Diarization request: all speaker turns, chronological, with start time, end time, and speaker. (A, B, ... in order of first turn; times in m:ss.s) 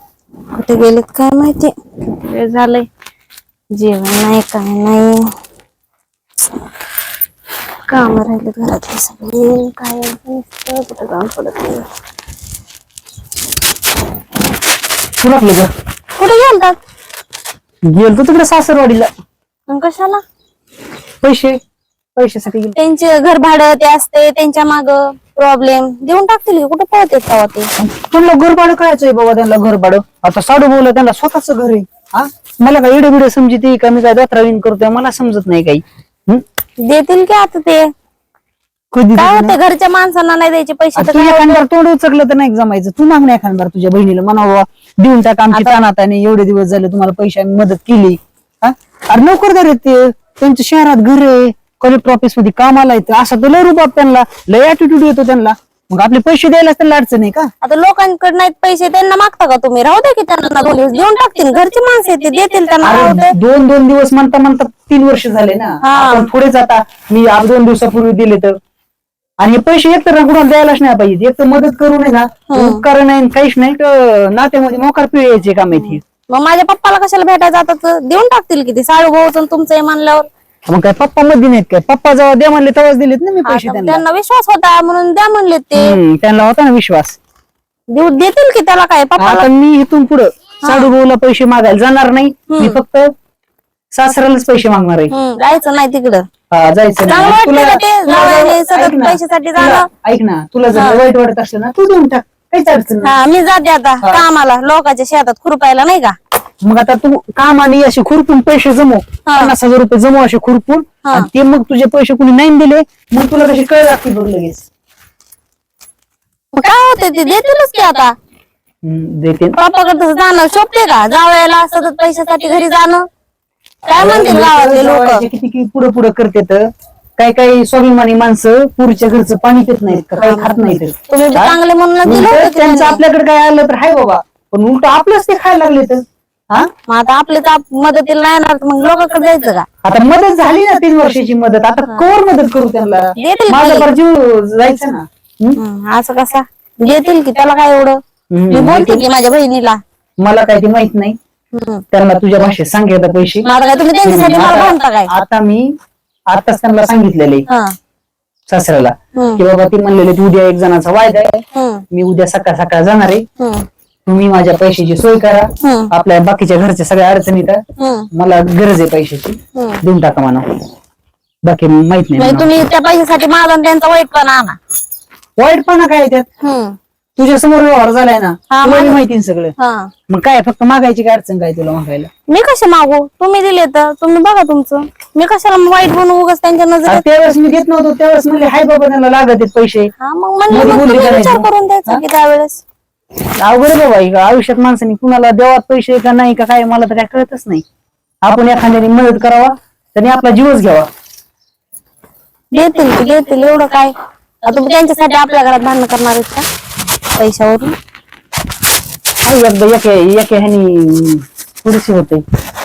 0:00.5-0:02.9 A
0:03.8-0:05.2 A
0:07.9-0:11.9 A
0:15.2-0:15.7 B
0:16.2-0:16.8 A
0:17.9-0:19.1 B
0:19.7-0:20.2 A
0:21.2-0:21.6 B
0:22.2-0:22.8 B
0:22.8-0:27.7 A
0:27.8-0:36.4 B
0:36.8-0:37.9 A
0:38.9-0:39.6 B
0:39.2-0:41.6 A
0:41.0-0:57.5 B
0:57.6-1:03.3 A
1:02.8-1:08.6 B
1:05.8-1:06.3 A
1:09.4-1:16.0 B
1:12.5-1:12.8 A
1:15.7-1:20.3 A
1:20.7-1:24.0 B
1:23.4-1:26.0 A
1:25.8-1:27.2 B
1:27.9-1:29.5 A
1:29.2-1:33.1 B
1:30.6-1:30.9 A
1:32.5-1:32.8 A
1:33.9-1:35.1 B
1:35.1-1:36.3 A
1:36.5-1:43.2 B
1:37.0-1:39.9 A
1:40.7-1:41.0 A
1:43.0-1:46.2 A
1:46.6-1:54.7 B
1:49.3-1:49.5 A
1:56.5-1:58.2 A
1:58.8-1:59.6 B
1:59.5-2:03.1 A
2:03.9-2:05.2 A
2:03.9-2:06.7 B
2:07.2-2:16.7 B
2:10.2-2:13.0 A
2:16.9-2:19.7 A
2:19.8-2:25.6 B
2:23.2-2:23.9 A
2:25.6-2:29.8 A
2:28.3-2:29.0 B
2:30.2-2:31.2 B
2:31.5-2:31.8 A
2:31.9-2:33.5 B
2:33.4-2:35.1 A
2:34.0-2:35.8 B
2:36.3-2:37.5 B
2:37.5-2:37.8 A
2:38.5-2:43.2 B
2:39.1-2:39.4 A
2:41.5-2:41.8 A
2:43.4-2:43.7 A
2:44.1-2:50.6 B
2:45.6-2:45.9 A
2:47.8-2:48.1 A
2:49.6-2:49.8 A
2:51.4-2:52.5 B
2:52.2-2:54.6 A
2:55.4-2:56.3 B
2:56.4-2:56.8 A
2:57.2-2:59.5 B
2:58.5-2:59.0 A
2:59.6-2:59.9 A
3:00.1-3:02.1 B
3:02.3-3:07.0 A
3:06.9-3:09.9 B
3:10.0-3:12.6 A
3:10.5-3:12.0 B
3:13.4-3:17.6 B
3:18.2-3:20.9 B
3:22.5-3:26.5 A
3:27.2-3:27.8 A
3:29.2-3:32.2 B